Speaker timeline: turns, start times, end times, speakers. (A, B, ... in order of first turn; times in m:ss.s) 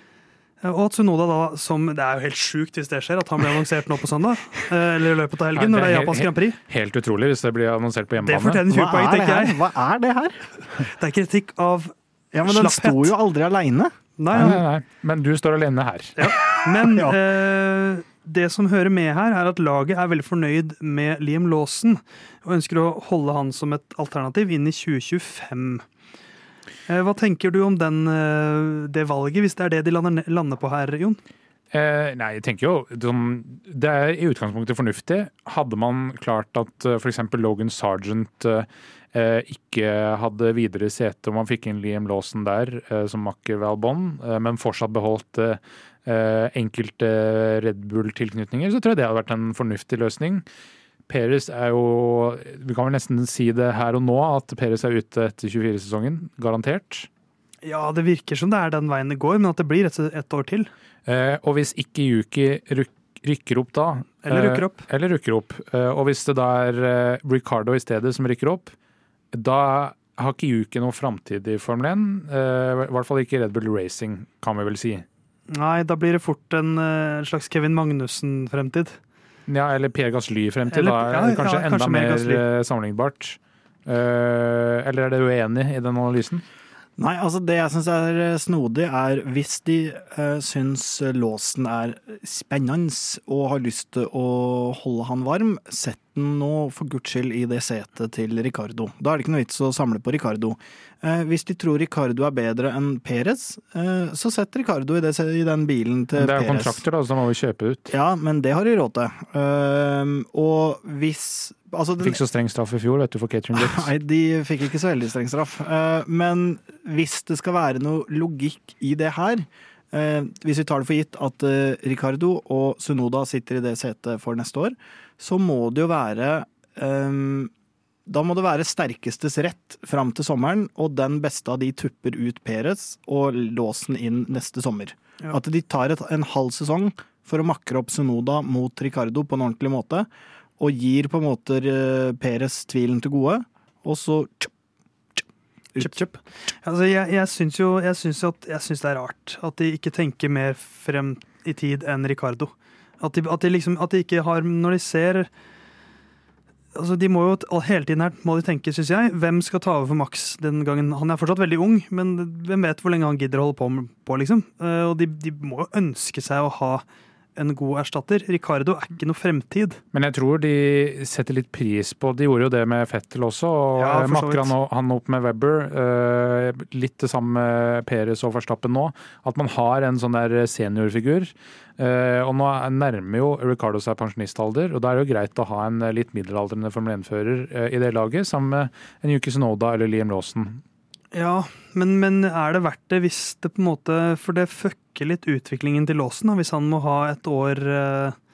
0:00.6-0:06.6 A
0:05.5-0:08.6 B
0:08.2-0:09.6 A
0:08.7-0:10.4 C
0:10.7-0:13.1 A
0:12.3-0:14.5 C
0:14.2-0:14.6 A
0:14.3-0:16.3 B
0:16.2-0:25.8 A
0:16.8-0:17.2 C
0:26.9-0:31.2 A
0:31.7-0:50.4 B
0:51.1-0:57.1 B
0:57.6-1:00.7 A
1:01.0-1:08.7 B
1:04.2-1:04.8 A
1:09.3-1:15.0 B
1:15.5-1:19.0 A
1:19.5-1:26.4 B
1:20.7-1:22.4 A
1:27.0-1:46.8 C
1:46.2-1:47.9 B
1:47.9-1:52.2 C
1:52.0-1:53.9 B
1:53.5-2:07.5 C
2:08.1-2:24.5 C
2:25.7-2:26.1 C
2:25.8-2:26.1 A
2:26.6-2:35.3 A
2:36.7-2:46.8 A
2:47.4-2:49.8 A
2:49.9-3:10.6 B
2:53.8-2:54.5 A
3:11.1-3:18.2 A